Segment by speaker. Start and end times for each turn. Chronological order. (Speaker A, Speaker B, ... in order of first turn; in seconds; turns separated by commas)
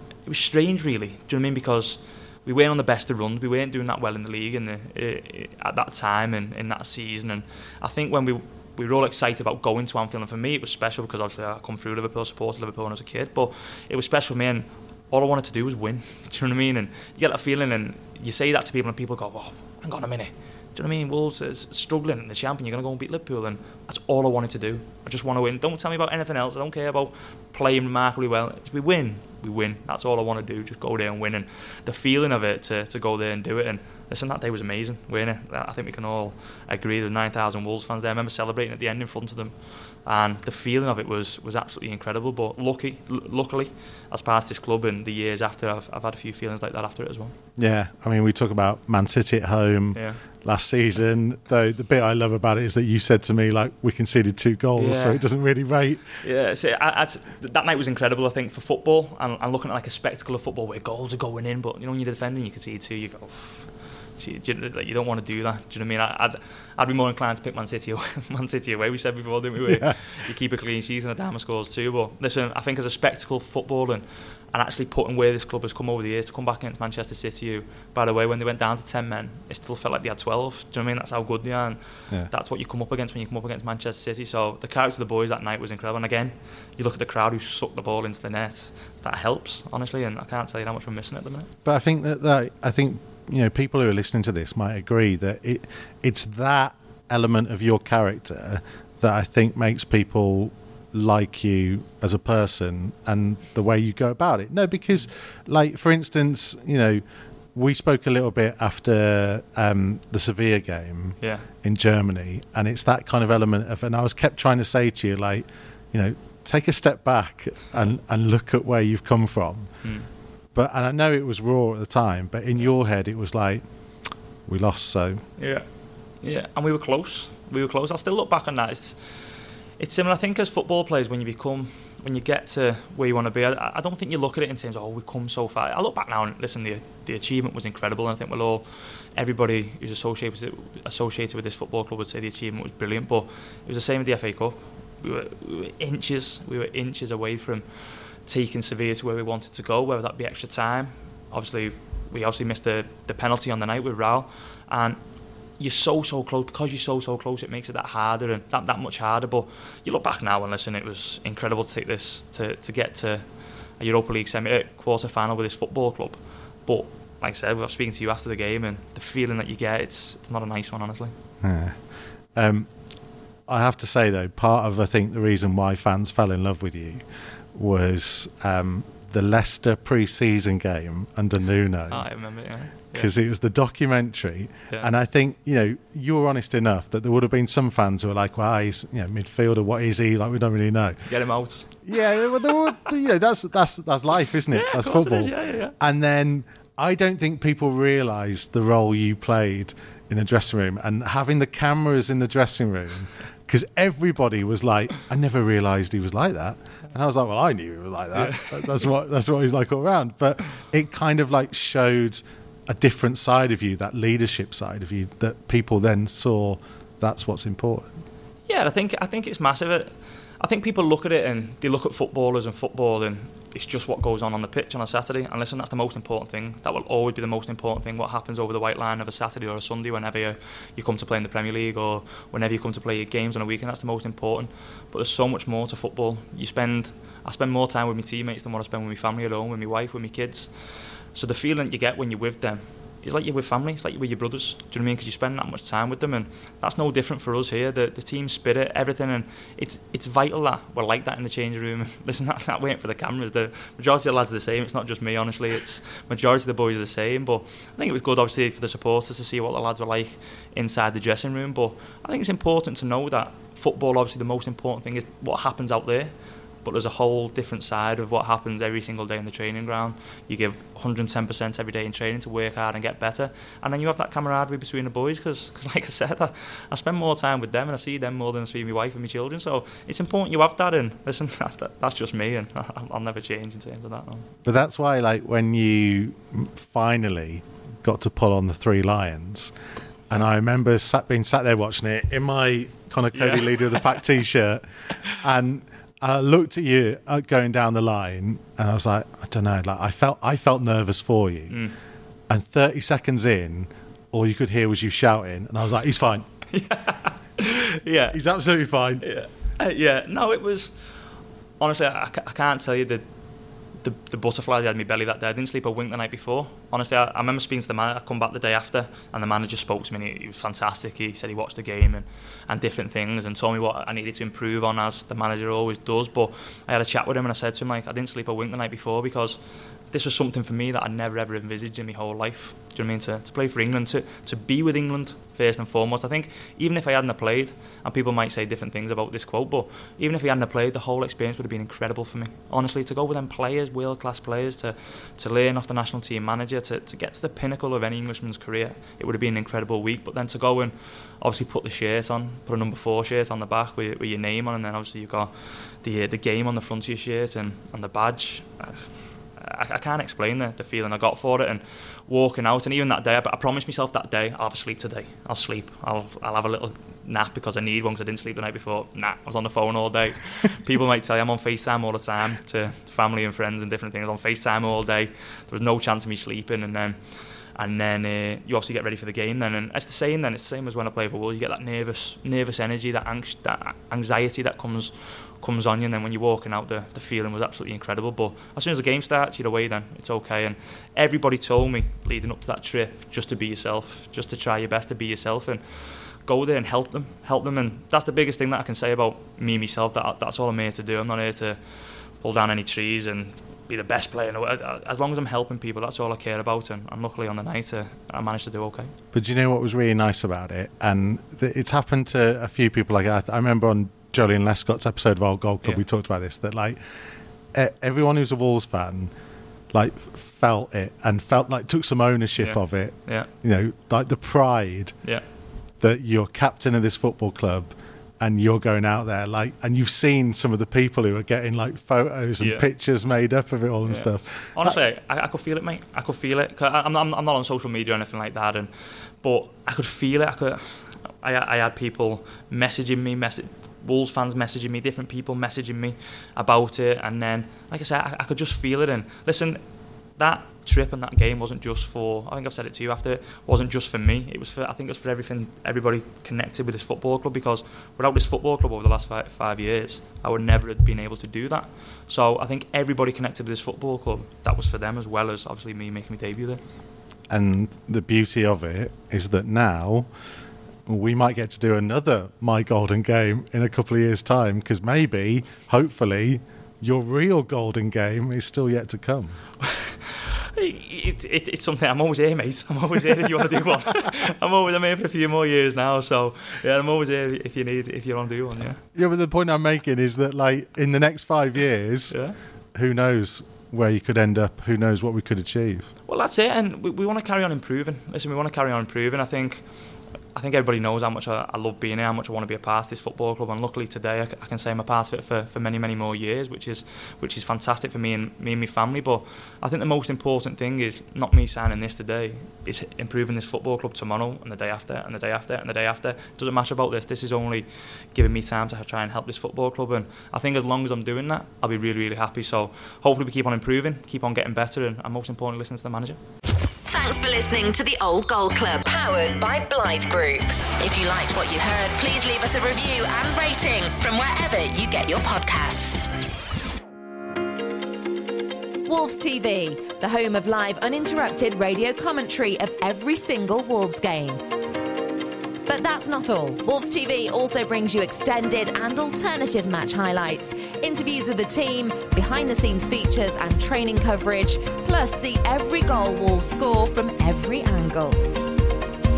Speaker A: 0.3-47.4, Speaker B: 47.6-56.2, Speaker A: 49.9-50.2, Speaker A: 54.8-55.2, Speaker A: 56.2-91.5, Speaker B: 69.6-69.9, Speaker B: 91.7-107.0, Speaker B: 107.5-119.8, Speaker A: 111.2-111.5, Speaker A: 119.8-120.1, Speaker B: 120.5-123.6, Speaker B: 124.5-125.2, Speaker A: 125.4-125.7, Speaker A: 126.2-129.0, Speaker A: 129.8-138.6, Speaker A: 139.2-155.0, Speaker A: 155.6-171.1, Speaker B: 171.4-171.8, Speaker B: 172.3-172.7, Speaker B: 173.5-182.1, Speaker A: 181.9-183.1, Speaker B: 182.9-191.0, Speaker A: 191.1-192.8, Speaker B: 191.8-217.9, Speaker A: 194.5-195.8, Speaker A: 208.1-208.9, Speaker A: 218.5-266.1, Speaker A: 266.6-284.3, Speaker B: 284.4-289.5, Speaker B: 290.1-301.6, Speaker A: 293.1-294.0, Speaker A: 301.5-301.8, Speaker B: 302.3-306.2, Speaker A: 306.5-308.2, Speaker B: 308.1-309.0, Speaker A: 309.0-310.8, Speaker A: 311.6-313.0, Speaker A: 313.8-329.4, Speaker A: 329.9-401.6, Speaker A: 402.2-408.9, Speaker B: 409.1-416.8, Speaker B: 417.5-419.1, Speaker B: 419.7-425.0, Speaker A: 422.4-423.3, Speaker B: 425.8-434.8, Speaker A: 432.4-432.7, Speaker A: 433.9-438.7, Speaker A: 439.2-449.6, Speaker A: 450.2-466.6, Speaker B: 467.3-470.1, Speaker B: 470.9-479.4, Speaker A: 479.6-488.8, Speaker B: 488.9-492.2, Speaker A: 492.1-492.4, Speaker B: 492.7-495.9, Speaker A: 496.1-499.7, Speaker A: 500.3-526.2, Speaker C: 526.9-536.1, Speaker C: 538.9-544.4, Speaker C: 545.7-558.2